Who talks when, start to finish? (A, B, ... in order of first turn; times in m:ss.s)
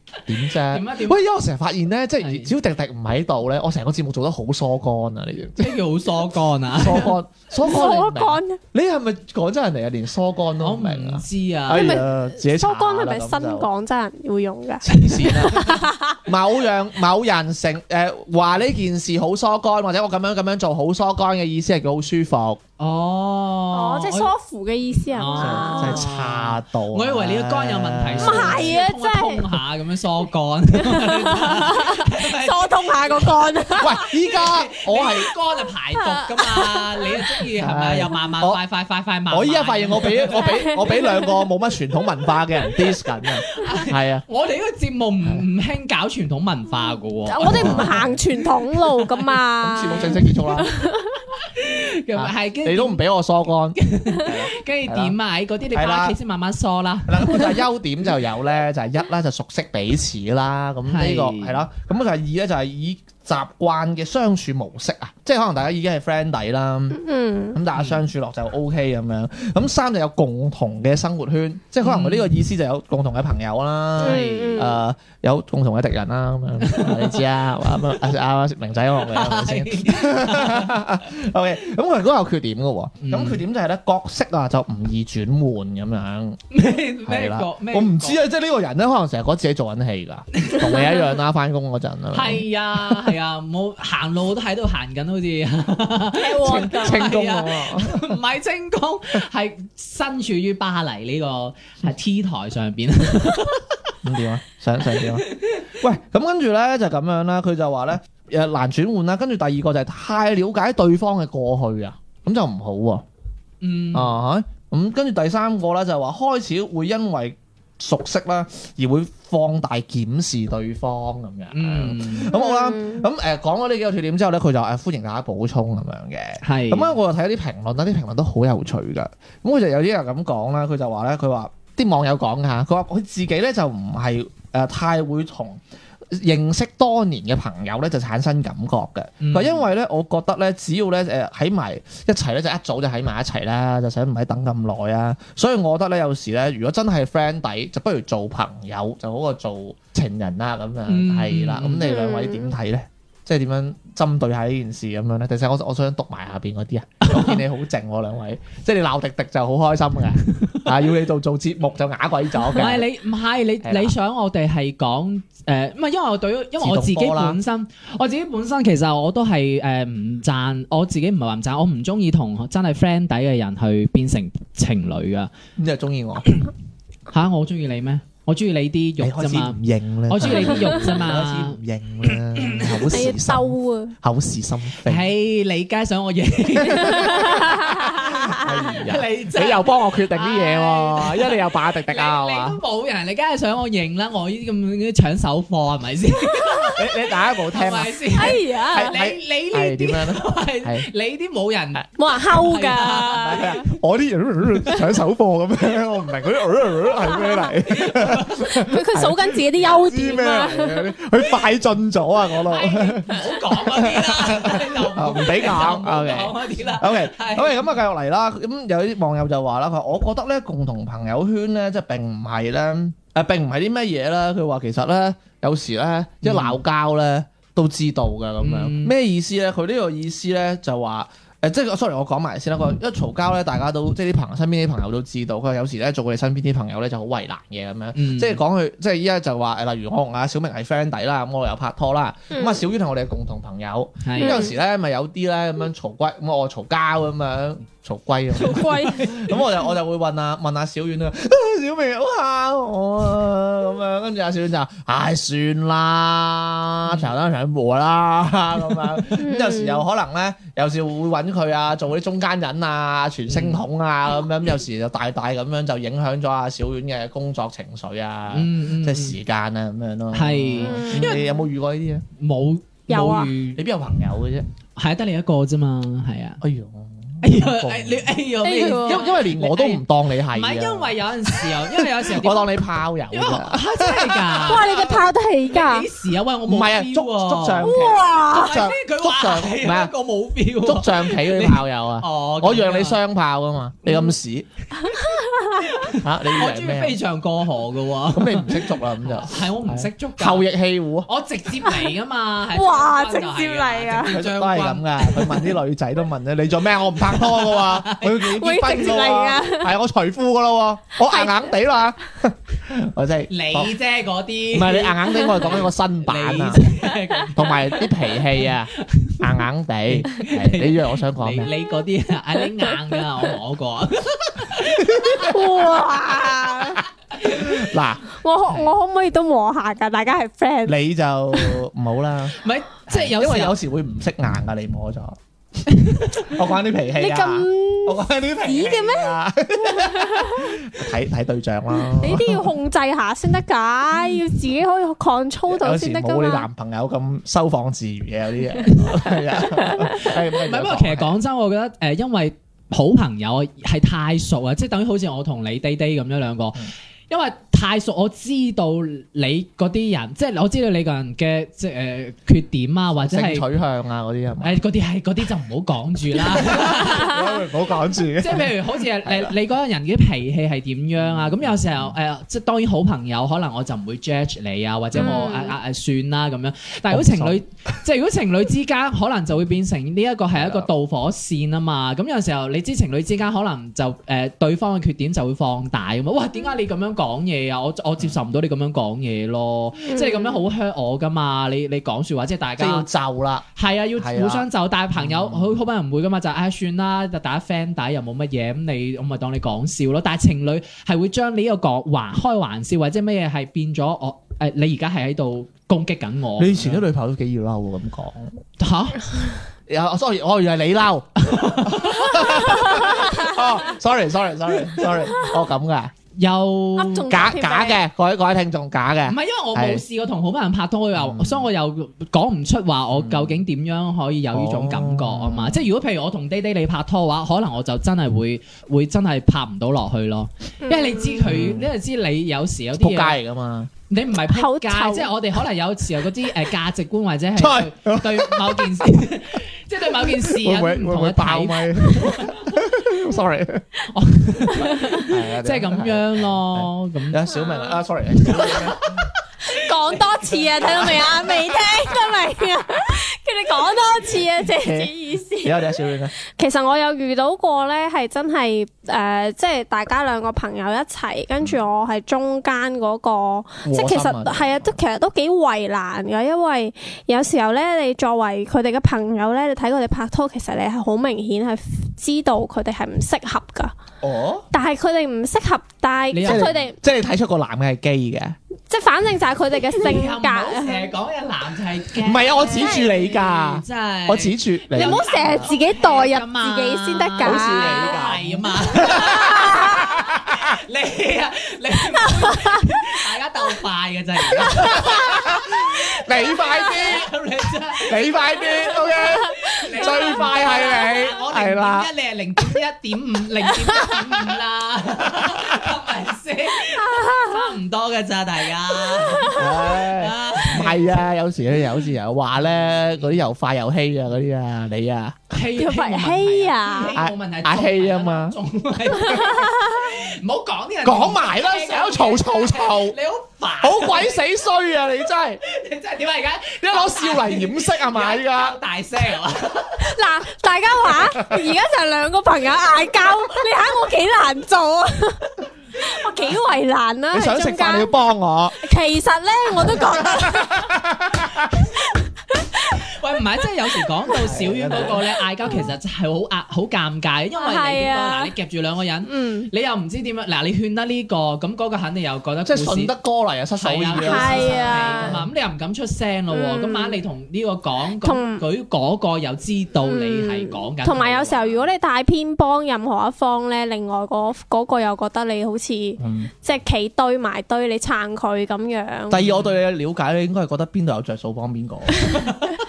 0:00.3-0:05.8 A
0:00.7-0:01.2 B
0:02.2-0:02.5 B
0:05.6-0:07.2 B
0:06.7-0:13.7 A
0:07.6-0:08.6 C
0:10.6-0:12.0 B
0:11.7-0:16.2 C
0:14.8-0:22.6 A
0:22.8-0:24.3 B
0:23.7-0:26.0 C
0:25.1-0:33.3 B
0:25.3-0:28.8 A
0:28.2-0:29.5 C
0:30.8-0:34.0 C
0:33.8-0:35.3 A
0:34.1-0:40.6 B
0:36.2-0:37.4 C
0:37.6-0:38.6 A
0:39.3-0:44.2 A
0:40.3-0:41.4 C
0:43.5-0:48.0 B
0:47.3-0:51.2 C
0:47.4-0:48.2 A
0:49.6-0:50.7 A
0:51.5-0:53.0 B
0:52.2-0:55.2 A
0:53.8-0:57.6 B
0:55.7-0:56.2 A
0:57.1-1:07.0 A
1:00.9-1:01.6 B
1:06.9-1:07.6 C
1:07.5-1:26.4 A
1:07.7-1:08.0 B
1:11.8-1:12.4 B
1:14.0-1:14.8 C
1:14.0-1:14.7 B
1:16.6-1:17.2 B
1:19.0-1:20.8 B
1:23.0-1:23.4 B
1:26.5-1:28.2 B
1:27.1-1:33.1 A
1:30.4-1:30.9 B
1:32.1-1:43.6 B
1:36.2-1:37.0 C
1:36.3-1:38.2 A
1:44.0-1:53.0 A
1:45.0-1:45.7 B
1:53.6-1:54.2 B
1:53.9-2:42.9 A
2:01.5-2:02.3 B
2:02.3-2:03.1 C
2:06.4-2:07.0 B
2:19.2-2:19.7 B
2:30.9-2:31.9 B
2:31.8-2:32.5 C
2:37.0-2:37.4 B
2:42.5-2:55.3 B
2:43.6-2:44.0 A
2:46.6-2:47.4 A
2:55.6-2:56.3 A
2:57.1-3:02.8 B
2:59.0-3:05.1 A
3:02.9-3:04.0 C
3:04.9-3:08.0 B
3:06.6-3:12.6 A
3:06.7-3:08.5 C
3:08.7-3:16.9 B
3:16.3-3:16.7 C
3:16.8-3:20.9 A
3:17.5-3:23.4 B
3:18.2-3:19.0 C
3:22.0-3:23.6 C
3:23.2-4:32.0 A
3:27.1-3:27.5 C
3:27.7-3:28.5 B
3:28.6-3:30.9 C
3:32.6-3:33.2 C
3:33.0-3:37.7 B
3:46.2-3:46.6 B
3:48.4-3:48.9 B
3:58.0-3:58.4 B
4:02.3-4:02.6 C
4:04.0-4:04.5 B
4:04.2-4:04.5 C
4:08.4-4:09.1 C
4:19.2-4:19.8 C
4:23.3-4:23.6 B
4:28.3-4:29.2 B
4:30.1-4:31.3 B
4:30.6-4:31.3 C
4:32.2-4:33.6 B
4:32.9-4:33.3 C
4:33.6-4:34.5 A
4:34.8-4:36.4 B
4:36.4-4:45.0 A
4:37.2-4:42.6 B
4:38.4-4:39.0 C
4:43.1-4:44.8 B
4:44.4-4:45.9 C
4:45.5-4:47.7 B
4:46.5-4:49.9 A
4:47.6-4:48.5 C
4:48.3-4:53.0 B
4:50.6-4:54.5 A
4:54.9-4:55.6 C
4:55.8-5:00.5 B
4:55.9-4:57.0 A
4:58.1-5:01.1 A
5:01.1-5:05.3 B
5:02.5-5:04.1 C
5:04.1-5:13.7 A
5:07.1-5:08.3 B
5:08.3-5:09.7 C
5:11.1-5:11.6 C
5:13.3-5:19.3 B
5:14.5-5:16.7 A
5:17.3-5:21.5 A
5:19.9-5:25.3 B
5:24.9-5:25.3 A
5:25.2-5:26.8 C
5:27.2-5:27.6 B
5:27.2-5:28.0 A
5:28.2-5:30.8 C
5:30.7-5:35.2 A
5:32.4-5:33.6 B
5:35.7-5:36.2 B
5:36.2-5:42.5 A
5:37.0-5:40.4 C
5:42.0-5:46.5 C
5:45.5-5:51.2 A
5:50.0-6:03.5 B
6:03.0-6:04.6 A
6:04.4-6:07.3 B
6:06.3-6:09.3 A
6:08.2-6:32.9 B
6:11.0-6:12.0 A
6:15.0-6:15.3 A
6:15.0-6:15.5 C
6:16.9-6:17.4 A
6:20.3-6:20.7 A
6:29.9-6:30.3 C
6:32.6-6:35.6 A
6:33.6-6:46.8 B
6:46.4-6:48.4 A
6:48.6-6:49.2 B
6:49.7-6:55.9 A
6:51.3-6:52.9 B
6:56.2-6:57.1 B
6:56.8-6:57.8 C
6:57.1-6:59.8 A
6:59.1-7:13.2 B
7:01.0-7:01.5 A
7:03.0-7:03.4 A
7:04.3-7:05.7 A
7:10.6-7:11.2 C
7:11.2-7:11.7 A
7:12.8-7:13.7 A
7:13.9-7:22.6 B
7:14.3-7:15.1 C
7:17.4-7:18.9 A
7:20.0-7:23.6 A
7:23.9-7:27.3 B
7:25.0-7:29.1 A
7:27.4-7:27.7 C
7:28.2-7:29.1 B
7:29.5-7:35.6 C
7:30.9-7:31.1 A
7:34.5-7:36.1 A
7:36.3-7:53.7 C
7:43.6-7:44.8 A
7:54.0-7:54.5 A
7:54.5-7:56.8 C
7:56.1-7:56.5 B
7:56.2-7:58.4 A
7:58.7-8:00.9 C
7:59.8-8:31.0 B
8:02.0-8:05.5 A
8:02.5-8:02.9 C
8:04.8-8:08.0 C
8:07.2-8:10.6 A
8:09.0-8:09.8 C
8:14.3-8:17.1 A
8:14.7-8:14.9 C
8:17.8-8:21.9 A
8:25.2-8:25.6 A
8:26.7-8:27.4 C
8:29.0-8:29.4 C
8:29.3-8:35.3 A
8:32.6-8:33.1 B
8:35.3-8:44.3 B
8:35.6-8:37.0 C
8:36.9-8:38.4 A
8:39.0-8:39.9 C
8:40.8-8:43.0 A
8:43.6-8:45.4 A
8:45.4-8:49.9 B
8:46.6-8:48.6 A
8:49.8-8:57.9 C
8:57.1-8:58.6 A
8:58.6-9:00.7 C
9:00.2-9:01.4 A
9:02.3-9:02.8 C
9:02.8-9:12.9 B
9:04.2-9:05.0 A
9:07.4-9:08.3 C
9:09.1-9:09.5 C
9:12.4-9:15.3 A
9:13.6-9:21.7 B
9:14.0-9:15.1 C
9:16.3-9:17.0 C
9:18.0-9:18.4 C
9:19.9-9:29.2 C
9:26.0-9:26.3 A
9:29.1-9:32.3 A